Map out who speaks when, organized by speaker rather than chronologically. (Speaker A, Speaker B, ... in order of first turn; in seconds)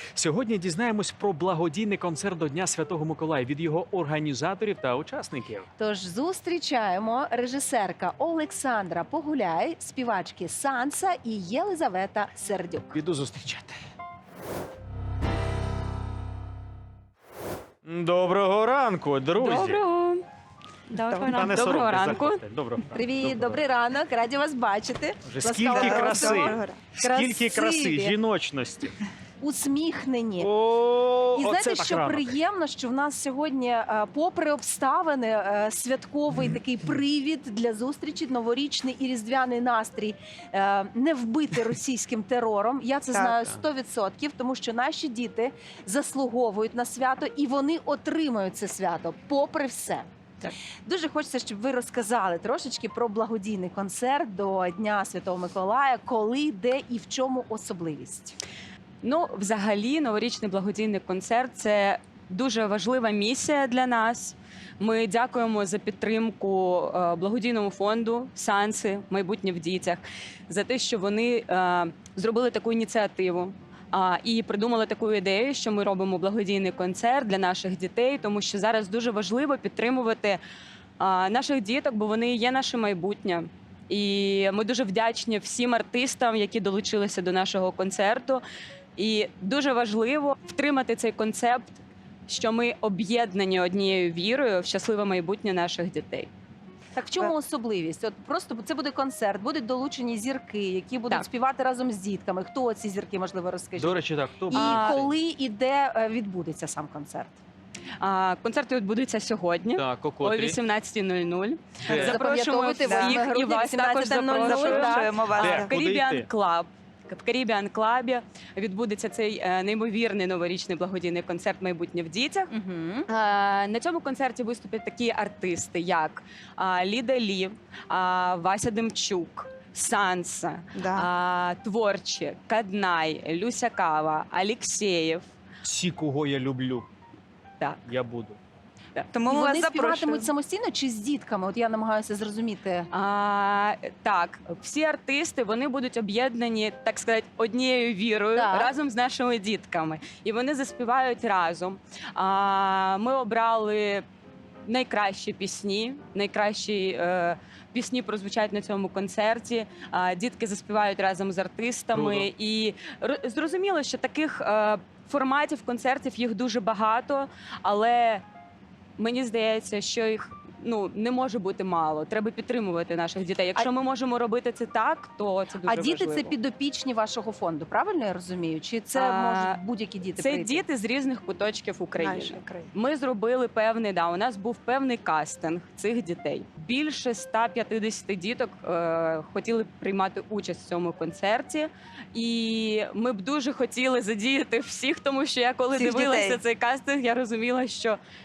Speaker A: 0.1-5.7, 12.9-13.8, 17.8-19.8, 21.1-23.6, 25.2-29.0, 30.4-32.3, 103.8-105.1, 109.8-110.6, 111.8-112.2, 115.3-116.3, 135.6-136.9, 137.8-138.4, 161.9-162.3
Speaker B: 5.8-13.0, 22.9-28.1, 29.4-30.5, 31.3-50.1, 50.9-58.4, 97.0-104.0, 104.5-107.4, 111.9-115.1, 122.5-123.1, 139.3-142.9, 148.3-148.7, 175.7-180.6
Speaker C: 19.4-20.2, 20.9-22.4, 59.0-80.4, 81.0-88.4, 89.0-96.3, 104.5-105.0, 108.0-122.5, 123.1-135.3, 142.9-154.0, 154.7-168.2, 169.0-176.3, 178.9-179.6, 180.2-198.0
Speaker D: 25.7-26.8, 43.1-43.5, 112.8-113.2, 114.0-115.8, 130.8-131.1, 139.1-140.3, 182.0-182.7, 195.7-196.4